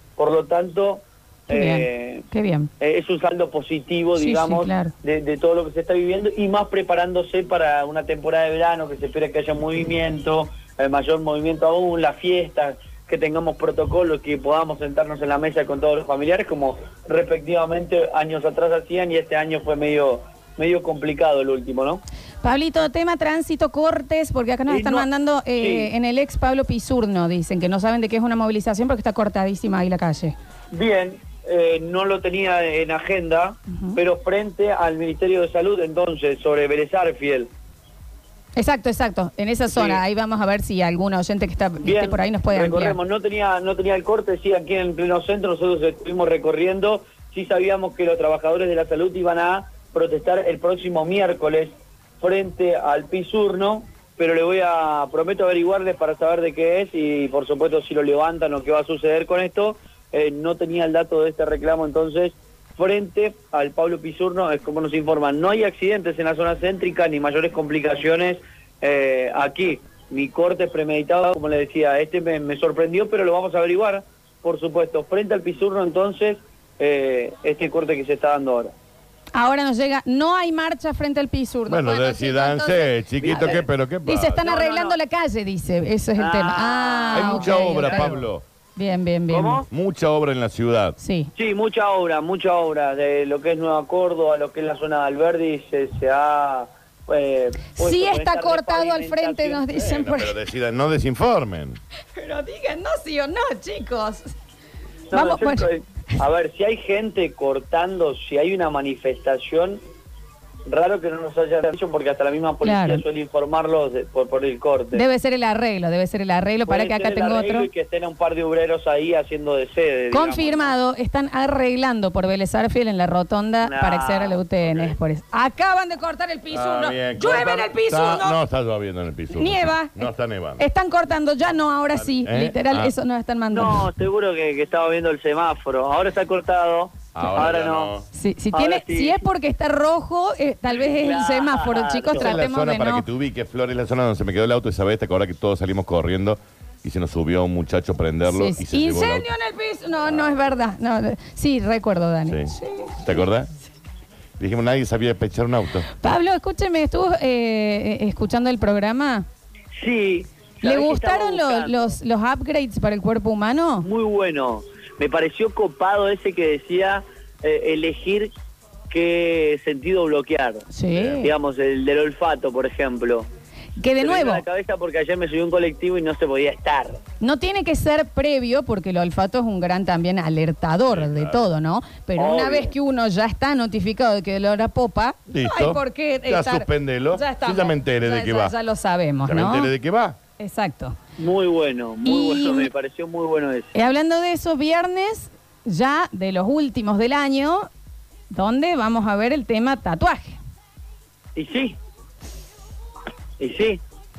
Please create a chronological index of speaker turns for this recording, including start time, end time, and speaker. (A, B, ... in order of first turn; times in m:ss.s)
0:00.2-0:02.3 A
0:01.5-0:02.7 B
0:02.8-0:22.0 A
0:04.2-0:04.9 B
0:22.4-0:30.4 B
0:24.7-0:25.9 A
0:30.7-0:37.5 A
0:33.7-0:34.0 B
0:38.6-0:43.0 B
0:39.7-0:40.0 A
0:41.8-1:18.7 A
1:19.3-1:23.6 B
1:21.7-1:24.4 C
1:23.2-1:23.7 A
1:24.1-1:28.2 B
1:24.4-1:25.0 A
1:26.2-1:28.2 A
1:27.1-1:28.4 C
1:28.8-1:29.6 B
1:29.3-1:29.7 A
1:29.7-1:31.0 C
1:31.0-1:31.3 B
1:31.4-1:39.7 A
1:37.8-1:40.4 B
1:39.7-1:41.8 C
1:42.2-1:44.3 B
1:45.1-1:49.8 A
1:45.1-1:45.7 B
1:50.7-1:55.0 A
1:52.6-1:53.0 B
1:54.9-1:57.7 B
1:56.7-2:00.8 A
2:00.1-2:08.4 B
2:03.6-2:04.9 A
2:06.5-2:10.6 C
2:09.3-2:13.9 B
2:12.0-2:12.9 C
2:13.5-2:18.0 A
2:17.1-2:18.0 C
2:18.1-2:23.0 B
2:18.5-2:19.2 A
2:20.8-2:22.3 A
2:22.2-2:29.3 C
2:28.3-2:33.0 B
2:30.1-2:30.4 C
2:32.3-2:33.5 C
2:34.4-2:35.9 C
2:36.0-2:39.3 B
2:39.8-2:42.0 A
2:40.6-2:43.9 B
2:43.8-2:48.3 A
2:48.9-2:53.3 A
2:50.7-2:51.3 B
2:53.8-2:54.4 B
2:54.0-2:57.0 A
2:57.2-3:09.7 B
3:00.9-3:01.4 C
3:02.2-3:02.7 A
3:05.3-3:08.6 C
3:09.2-3:10.2 C
3:10.4-3:11.0 B
3:11.2-3:13.7 A
3:12.0-3:12.7 B
3:13.7-3:17.7 B
3:18.3-3:20.4 B
3:21.4-3:21.8 A
3:23.4-3:23.8 A